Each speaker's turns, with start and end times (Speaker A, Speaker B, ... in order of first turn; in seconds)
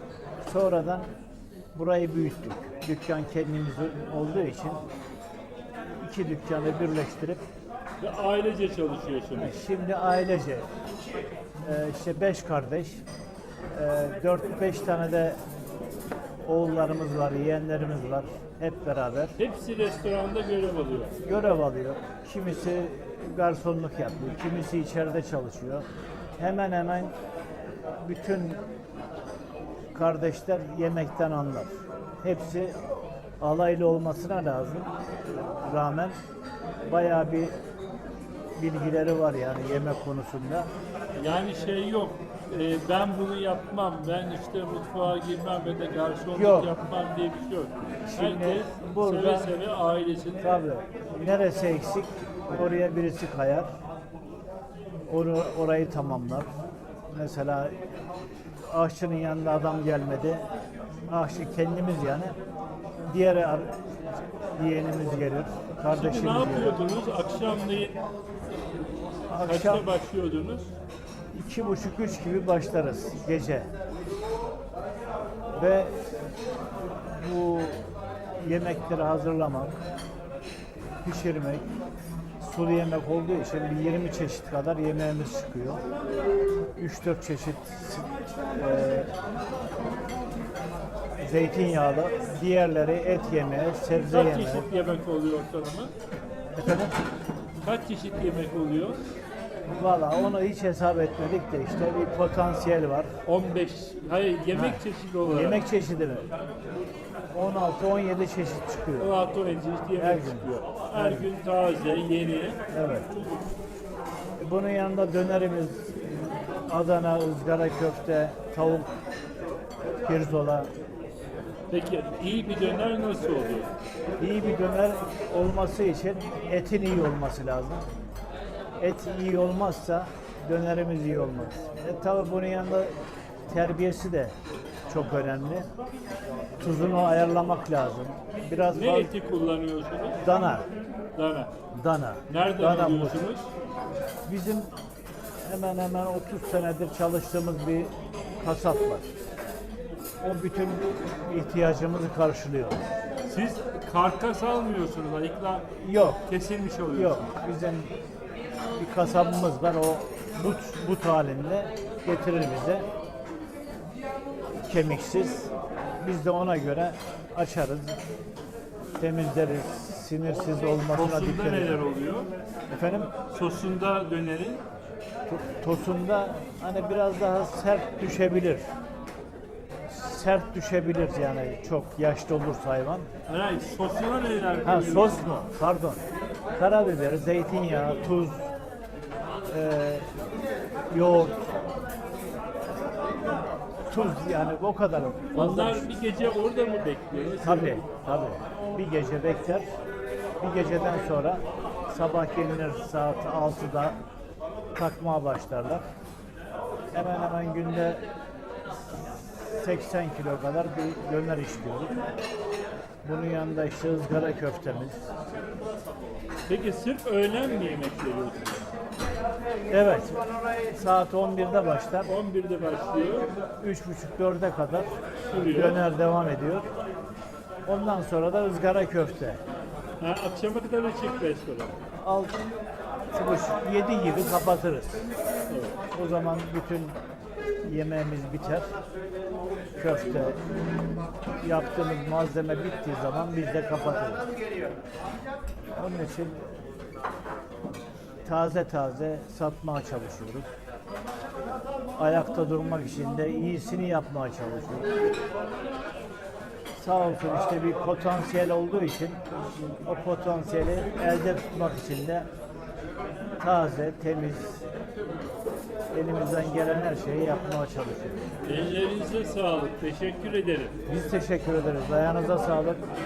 Speaker A: 0.4-1.1, 1.7-4.8, 6.0-7.5, 9.3-10.7, 11.6-13.0, 13.7-15.4, 16.4-19.4, 21.2-25.9, 26.4-27.1, 28.0-28.6, 29.9-32.8, 33.4-36.2, 36.8-37.5, 38.6-40.7, 46.3-46.7, 48.1-49.5, 50.4-53.7, 55.1-56.5, 57.1-57.8, 58.5-60.5, 61.1-62.4, 63.1-63.8, 64.5-66.8, 69.3-69.9, 71.3-73.7, 75.5-76.0, 77.1-77.9, 78.4-79.8, 81.0-81.7, 82.4-85.8, 86.8-89.1, 91.2-94.7, 96.5-97.0, 99.7-103.1, 104.5-106.3, 107.3-109.1, 110.0-111.3, 112.7-113.1, 114.4-118.9, 120.0-120.7, 124.2-127.8, 128.8-132.9, 133.5-134.3, 134.9-135.7, 136.6-139.1, 140.2-140.7, 141.7-143.2, 144.3-144.7, 145.5-149.1, 150.2-152.9, 155.8-156.3, 156.9-157.9, 158.7-162.8, 164.7-168.0, 169.0-171.8, 172.7-173.1, 175.3-178.6, 179.9-183.1, 184.6-186.0, 186.6-188.4, 189.5-190.1, 190.9-191.4, 193.9-195.8, 197.4-199.7, 200.4-204.0, 204.7-205.8, 206.9-208.0, 209.5-212.0, 213.0-215.0, 219.7-222.1, 223.6-226.7, 227.7-229.4, 232.0-232.4, 233.1-235.0, 235.9-237.0, 237.6-238.7, 239.8-240.4, 241.4-244.3, 245.7-246.4, 248.3-250.5, 252.0-254.9, 256.8-259.2, 259.9-262.3, 263.4-264.7, 265.9-268.3, 270.9-272.8
Speaker B: 8.0-9.6, 19.4-21.1, 41.2-50.5, 65.9-68.0, 69.4-70.7, 93.9-95.9, 97.6-99.0, 103.2-105.6, 109.0-112.6, 121.7-123.7, 138.7-140.3, 141.2-141.5, 142.3-143.5, 153.2-155.7, 156.2-157.2, 170.9-172.3, 173.3-174.6, 183.3-185.2, 195.3-197.9, 216.5-218.7, 222.0-223.3, 225.3-225.8, 230.0-231.8, 235.5-235.8, 268.4-270.8